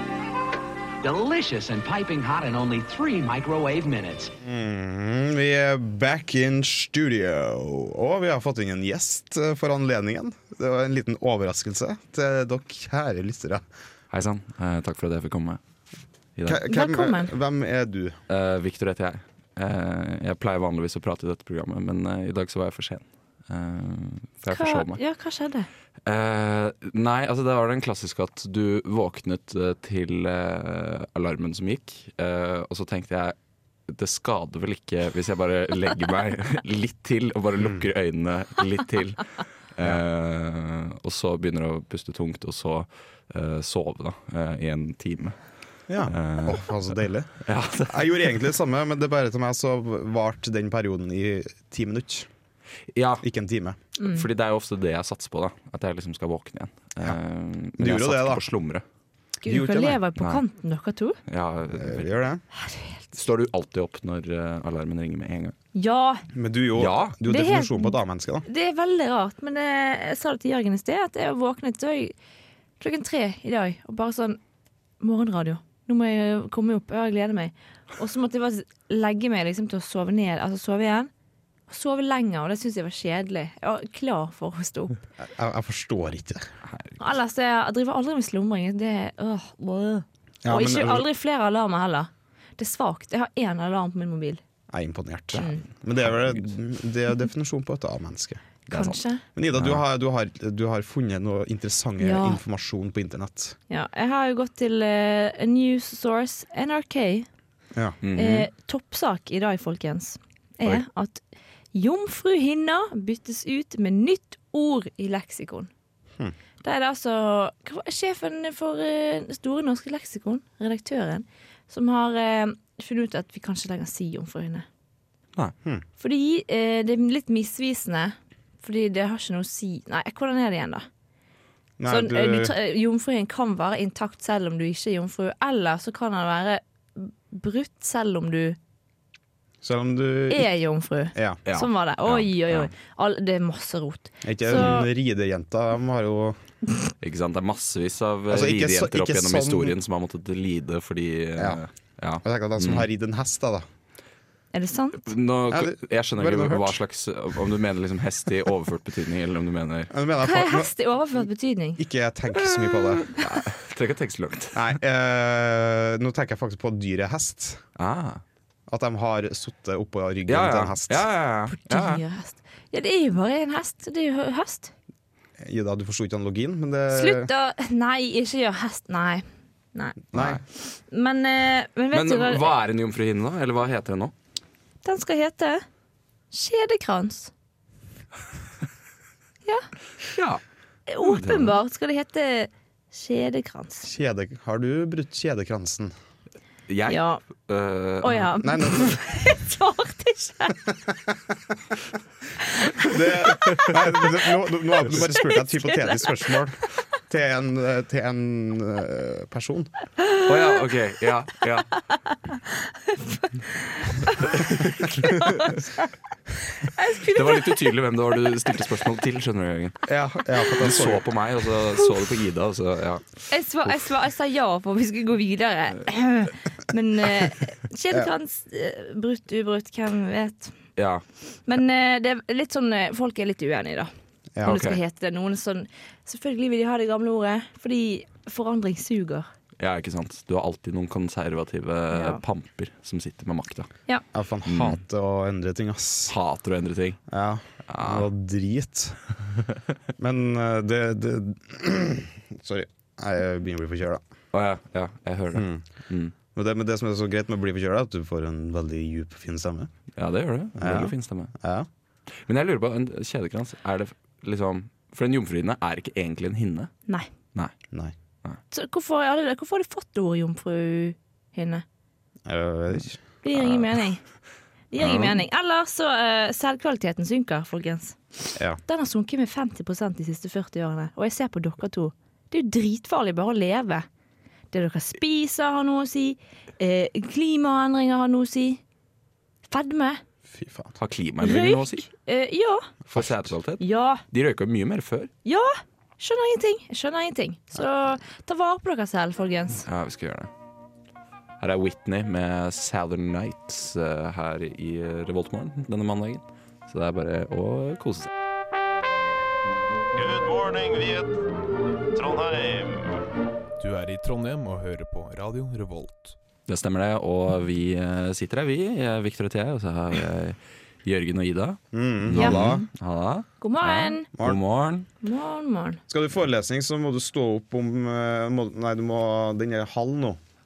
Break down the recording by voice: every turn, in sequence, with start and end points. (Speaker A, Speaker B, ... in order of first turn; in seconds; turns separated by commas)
Speaker A: 1.0-4.3, Speaker B: 4.4-13.7, Speaker C: 14.1-15.6, Speaker C: 16.4-16.6, Speaker B: 16.5-18.2, Speaker D: 16.7-17.3, Speaker C: 18.3-25.0, Speaker D: 24.5-25.7, Speaker C: 26.1-33.4, Speaker C: 33.9-45.4, Speaker B: 37.6-37.9, Speaker B: 45.9-52.3, Speaker C: 46.0-46.9, Speaker C: 47.4-48.3, Speaker C: 52.9-53.3, Speaker B: 53.2-53.8, Speaker D: 54.0-54.2, Speaker C: 54.0-58.8, Speaker B: 57.8-58.4, Speaker D: 59.4-61.2, Speaker B: 59.5-60.0, Speaker C: 60.2-60.4, Speaker C: 61.3-62.2, Speaker B: 61.7-62.4, Speaker D: 62.5-63.0, Speaker C: 63.1-65.5, Speaker D: 65.8-66.3, Speaker B: 66.3-68.5, Speaker C: 66.8-67.2, Speaker D: 67.2-72.2, Speaker D: 72.8-74.4, Speaker D: 75.0-81.1, Speaker D: 81.7-85.0, Speaker B: 85.2-86.5, Speaker C: 86.7-87.0, Speaker D: 87.0-94.4, Speaker B: 90.5-91.1, Speaker B: 94.7-98.4, Speaker D: 95.3-95.7, Speaker C: 98.7-99.0, Speaker D: 98.7-99.2, Speaker B: 99.4-103.6, Speaker C: 99.5-99.8, Speaker D: 102.0-102.4, Speaker D: 103.7-107.3, Speaker C: 108.0-108.5, Speaker D: 108.2-115.7, Speaker D: 116.6-124.7, Speaker D: 126.0-130.9, Speaker B: 131.8-132.5, Speaker D: 131.9-138.6, Speaker B: 139.6-140.5, Speaker D: 140.3-144.9, Speaker B: 141.1-141.4, Speaker C: 141.5-142.7, Speaker B: 144.2-146.4, Speaker C: 147.0-152.9, Speaker B: 148.3-149.8, Speaker B: 151.4-151.6, Speaker B: 152.2-153.7, Speaker D: 154.5-155.0, Speaker C: 155.1-159.9, Speaker B: 155.5-156.8, Speaker B: 159.9-160.7, Speaker D: 160.2-161.8, Speaker B: 161.8-163.1, Speaker C: 162.4-164.8, Speaker B: 164.5-167.6, Speaker C: 167.8-168.2, Speaker B: 168.7-171.1, Speaker C: 170.3-172.0, Speaker D: 171.5-174.7, Speaker B: 175.4-177.3, Speaker D: 176.9-180.0, Speaker B: 180.1-180.4, Speaker C: 180.1-180.4, Speaker D: 180.5-182.5, Speaker C: 181.9-184.1, Speaker D: 184.8-185.7, Speaker D: 186.3-187.3, Speaker C: 190.2-190.4, Speaker D: 190.9-193.9, Speaker C: 191.0-191.6, Speaker B: 193.8-195.9, Speaker C: 196.7-198.3, Speaker D: 196.9-197.2, Speaker D: 198.0-200.6, Speaker B: 198.4-199.0, Speaker B: 202.8-209.7, Speaker D: 203.3-204.0, Speaker D: 204.8-206.6, Speaker C: 210.3-211.7, Speaker D: 212.3-215.9, Speaker C: 214.3-215.2, Speaker D: 216.6-217.7, Speaker C: 217.1-219.8, Speaker B: 219.9-221.1, Speaker C: 220.6-223.1, Speaker D: 223.3-230.6, Speaker C: 230.8-231.0, Speaker D: 231.5-233.9, Speaker B: 234.3-234.6, Speaker D: 234.4-239.3, Speaker C: 234.4-234.8, Speaker C: 239.6-243.7, Speaker D: 241.9-242.2, Speaker B: 244.1-246.1, Speaker C: 244.5-244.8, Speaker C: 246.1-247.0, Speaker B: 247.1-249.0, Speaker C: 247.7-248.1, Speaker B: 250.0-254.0, Speaker C: 254.3-256.1, Speaker B: 255.3-255.7, Speaker B: 256.3-259.7, Speaker C: 260.0-261.3, Speaker B: 260.6-261.7, Speaker C: 262.2-266.7, Speaker D: 268.5-271.6, Speaker B: 272.3-273.0, Speaker D: 273.2-274.0, Speaker C: 273.4-273.6, Speaker D: 274.7-283.9, Speaker C: 274.8-275.2, Speaker B: 278.4-278.6, Speaker D: 284.5-288.6, Speaker D: 289.5-290.0, Speaker B: 290.3-290.8, Speaker C: 290.8-291.9, Speaker D: 291.2-292.7, Speaker B: 292.9-293.3, Speaker C: 292.9-295.1, Speaker D: 293.6-294.0, Speaker D: 295.2-299.6, Speaker C: 299.7-300.3, Speaker C: 301.4-308.1, Speaker B: 310.1-310.8, Speaker B: 312.1-312.5, Speaker E: 313.6-316.2, Speaker C: 316.5-324.9, Speaker B: 321.7-322.6, Speaker D: 322.2-322.6, Speaker D: 323.4-324.1, Speaker D: 325.0-325.8, Speaker B: 325.9-330.2